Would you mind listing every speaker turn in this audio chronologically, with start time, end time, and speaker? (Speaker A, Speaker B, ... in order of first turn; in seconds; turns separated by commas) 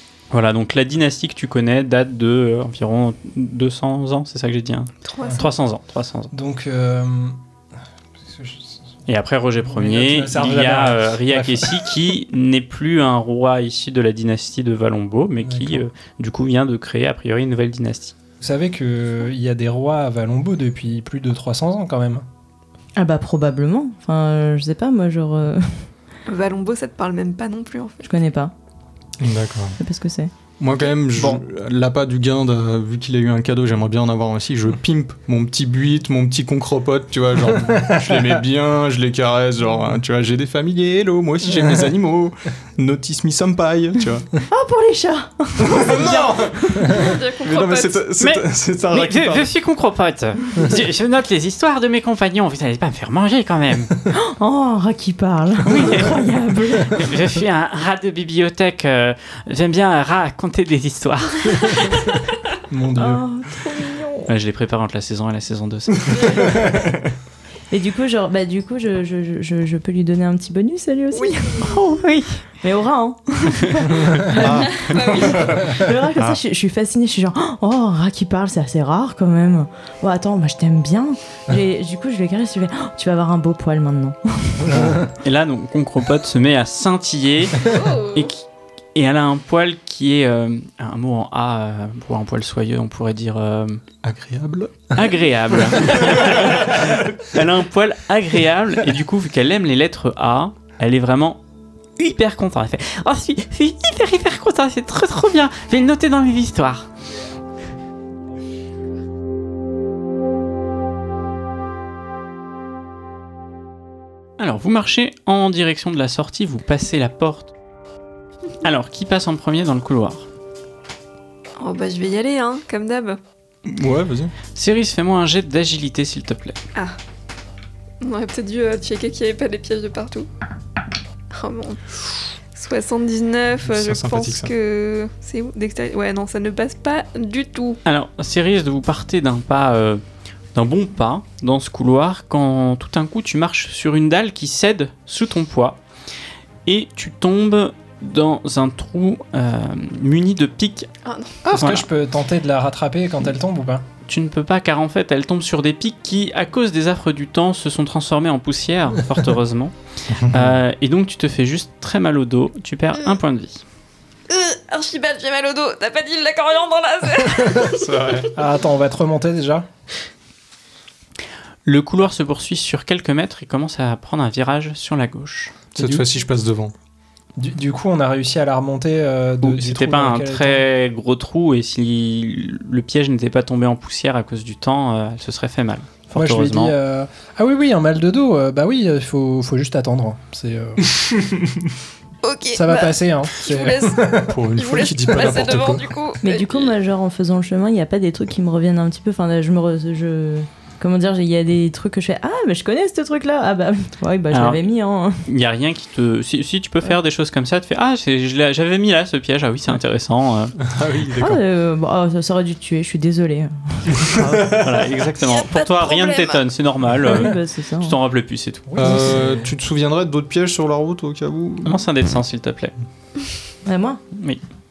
Speaker A: 0.3-6.3, Speaker B: 5.0-5.5, Speaker C: 6.3-7.4, Speaker C: 8.2-8.8, Speaker A: 9.1-18.1, Speaker C: 9.6-12.0, Speaker C: 15.4-15.8, Speaker C: 18.4-22.2, Speaker D: 23.0-25.9, Speaker B: 26.3-28.0, Speaker D: 28.0-28.5, Speaker E: 29.2-29.8, Speaker D: 29.8-30.3, Speaker E: 30.6-44.3, Speaker C: 31.2-31.4, Speaker C: 37.7-38.3, Speaker D: 44.5-47.0, Speaker E: 45.6-49.5, Speaker B: 46.9-48.0, Speaker A: 48.2-53.9, Speaker D: 54.1-57.1, Speaker A: 55.6-56.2, Speaker A: 56.9-61.9, Speaker C: 62.7-63.2, Speaker D: 62.9-64.3, Speaker A: 64.3-66.3, Speaker B: 66.1-66.6, Speaker D: 67.7-84.8, Speaker B: 71.1-71.8, Speaker A: 71.9-72.2, Speaker E: 74.3-76.4, Speaker B: 74.6-75.7, Speaker C: 84.7-85.1, Speaker A: 84.9-93.8, Speaker B: 87.6-88.3, Speaker E: 94.0-94.9, Speaker A: 94.9-101.4, Speaker E: 95.7-96.9, Speaker A: 102.0-106.9, Speaker A: 114.4-117.5, Speaker A: 118.6-120.3, Speaker B: 121.6-123.2, Speaker E: 123.6-124.3, Speaker A: 124.5-126.6, Speaker B: 128.0-130.3, Speaker B: 131.3-137.8, Speaker E: 133.6-134.5, Speaker A: 137.8-140.0, Speaker A: 140.5-145.8, Speaker A: 146.7-150.9, Speaker B: 151.0-151.4, Speaker C: 151.5-153.8, Speaker A: 151.5-151.8, Speaker A: 154.1-163.6, Speaker E: 160.1-160.6, Speaker B: 164.3-168.3, Speaker E: 167.6-168.3, Speaker C: 168.3-169.7, Speaker A: 171.6-175.5, Speaker E: 175.7-176.7, Speaker C: 175.8-176.1, Speaker C: 177.4-180.6, Speaker A: 179.4-186.8, Speaker C: 186.1-191.0, Speaker B: 192.2-196.7, Speaker C: 192.5-194.4, Speaker E: 194.3-195.9, Speaker D: 196.2-205.2, Speaker A: 204.3-204.6, Speaker A: 205.2-210.5, Speaker E: 210.6-211.4, Speaker D: 211.2-214.6, Speaker E: 214.0-214.7, Speaker A: 214.5-218.7, Speaker B: 215.2-216.4, Speaker D: 217.0-218.0, Speaker C: 218.7-219.5, Speaker E: 218.8-221.8, Speaker A: 221.6-222.7, Speaker D: 223.7-224.0, Speaker A: 224.1-224.4